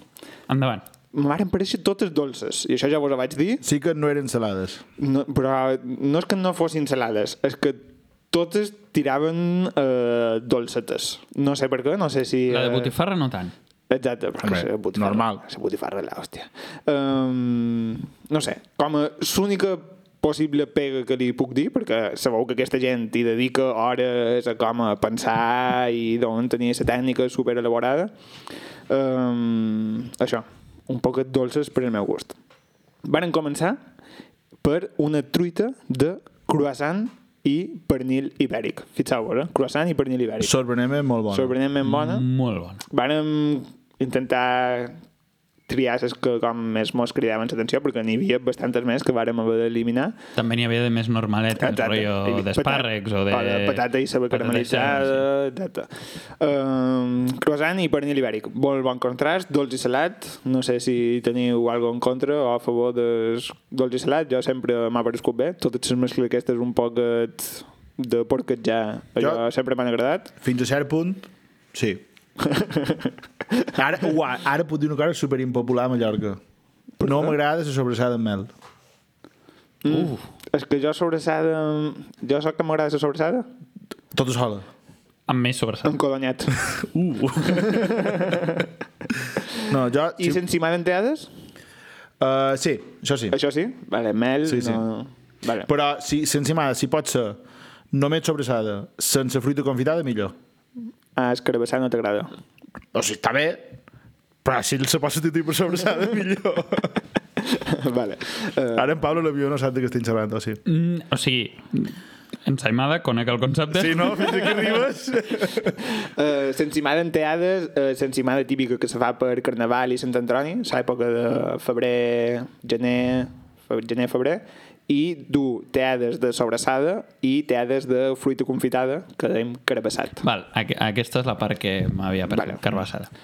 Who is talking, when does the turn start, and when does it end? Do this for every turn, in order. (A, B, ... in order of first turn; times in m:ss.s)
0:00.5-0:00.8 A
0:01.1-0:03.6 B
0:03.6-0:04.8 C
0:05.0-0:12.9 B
0:12.5-0:13.5 A
0:13.9-0:28.1 B
0:14.4-0:15.4 C
0:28.9-0:32.4 B
0:33.0-0:33.8 B
0:34.6-0:40.5 B
0:40.4-0:41.5 C
0:41.3-0:42.2 B
0:41.8-0:42.8 A
0:42.9-0:45.0 B
0:45.7-0:50.2 B
0:50.4-0:55.2 A
0:51.6-1:10.3 B
1:09.2-1:09.4 C
1:10.4-1:12.0 C
1:12.4-1:13.1 B
1:13.8-1:16.4 C
1:17.0-1:17.3 B
1:17.0-1:18.5 C
1:19.8-1:23.5 B
1:19.9-1:20.2 A
1:24.1-1:24.6 C
1:25.3-1:25.9 A
1:25.8-1:26.6 B
1:26.7-1:28.2 C
1:27.4-1:28.7 B
1:29.4-1:29.6 B
1:29.7-1:30.4 C
1:30.2-1:31.3 B
1:32.2-1:33.4 C
1:33.3-1:35.7 B
1:34.5-1:34.8 C
1:35.6-1:40.4 C
1:41.2-1:42.3 B
1:42.9-1:43.8 C
1:44.4-1:47.0 C
1:47.4-1:48.9 B
1:48.8-1:50.6 C
1:50.6-1:52.0 A
1:52.5-1:54.6 A
1:53.7-1:55.8 C
1:55.9-2:10.2 B
2:10.2-2:13.1 A
2:12.3-2:12.6 B